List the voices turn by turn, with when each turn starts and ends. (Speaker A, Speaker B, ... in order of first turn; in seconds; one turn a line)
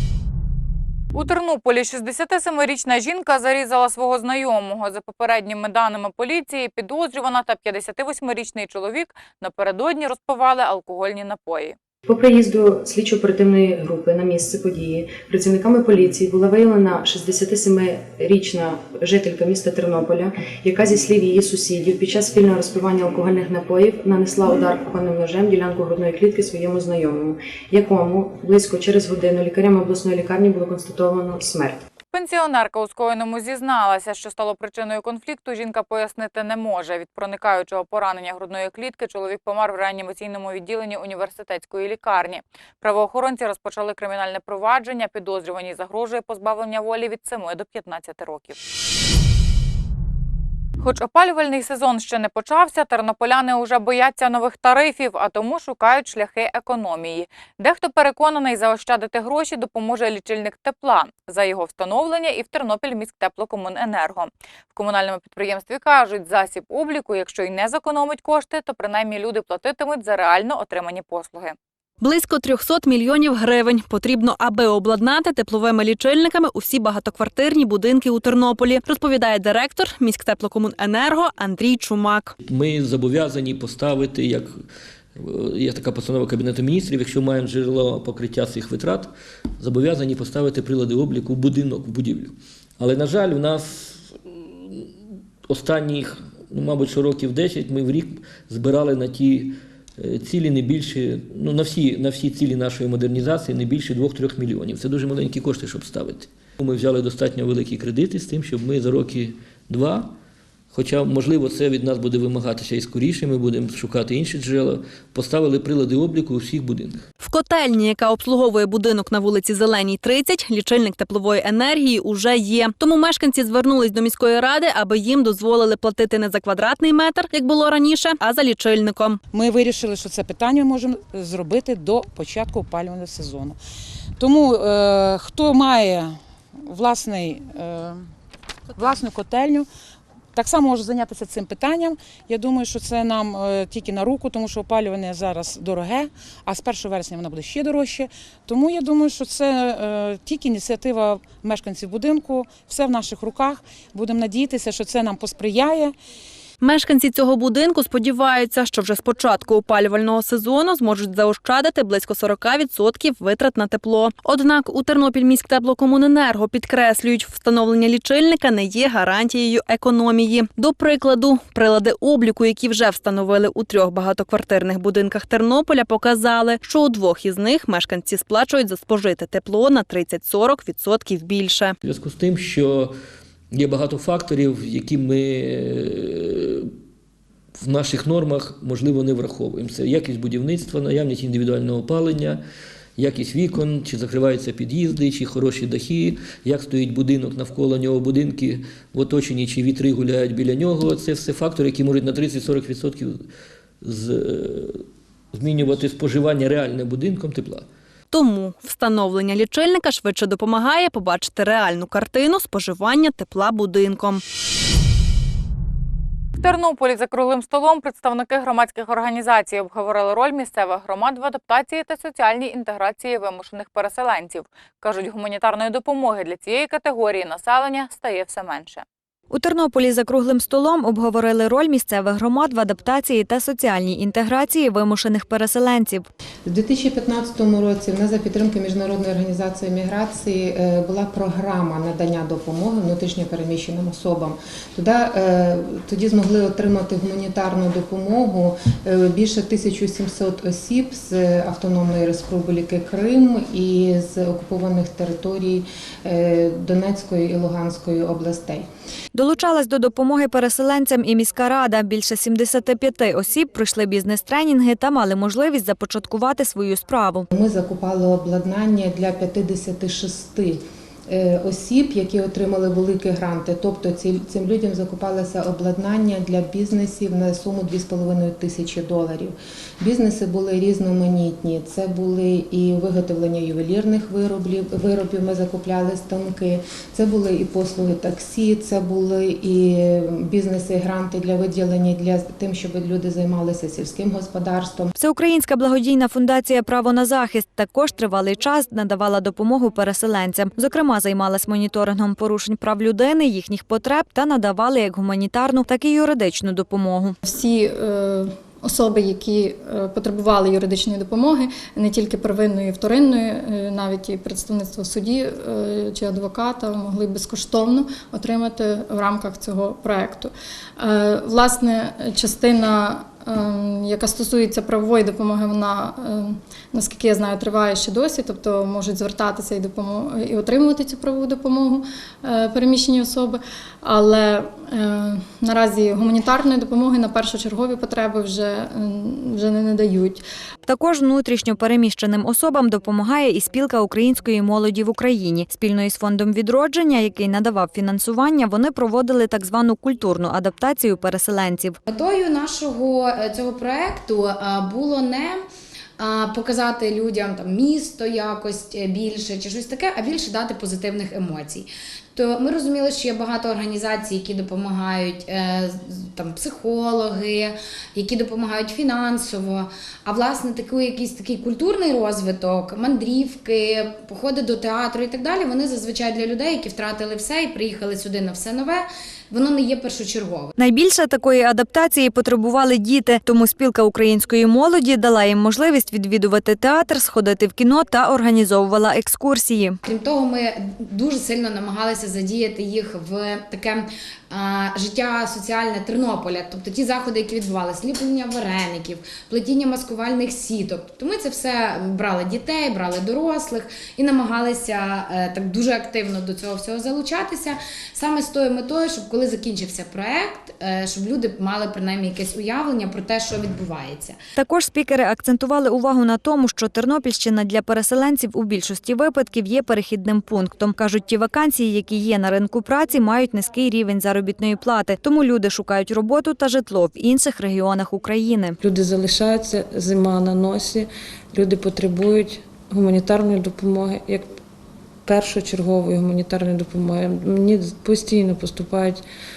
Speaker A: 1.1-11.8
Speaker B: 12.1-31.8
Speaker A: 32.1-48.6
Speaker A: 50.8-71.6
Speaker C: 72.0-82.3
Speaker D: 82.4-84.6
Speaker D: 85.2-94.9
Speaker D: 95.5-110.1
Speaker D: 110.7-117.0
Speaker C: 117.2-129.2
Speaker E: 129.3-133.6
Speaker E: 134.2-136.1
Speaker E: 136.7-138.0
Speaker E: 138.8-139.7
Speaker E: 140.3-155.9
Speaker C: 156.6-181.8
Speaker D: 181.8-182.9
Speaker D: 183.5-186.7
Speaker D: 187.6-192.4
Speaker D: 193.0-203.2
Speaker D: 203.8-207.7
Speaker C: 208.1-214.2
Speaker A: 216.4-228.8
Speaker F: 229.3-236.1
Speaker G: 236.5-258.7
Speaker F: 259.1-267.3
Speaker G: 267.3-294.9
Speaker F: 295.0-307.2
Speaker H: 307.2-340.2
Speaker F: 340.7-351.8
Speaker I: 351.9-355.4
Speaker I: 356.0-380.5
Speaker F: 380.6-389.8
Speaker I: 389.8-414.2
Speaker F: 414.4-428.6
Speaker J: 428.6-434.3
Speaker J: 435.1-439.0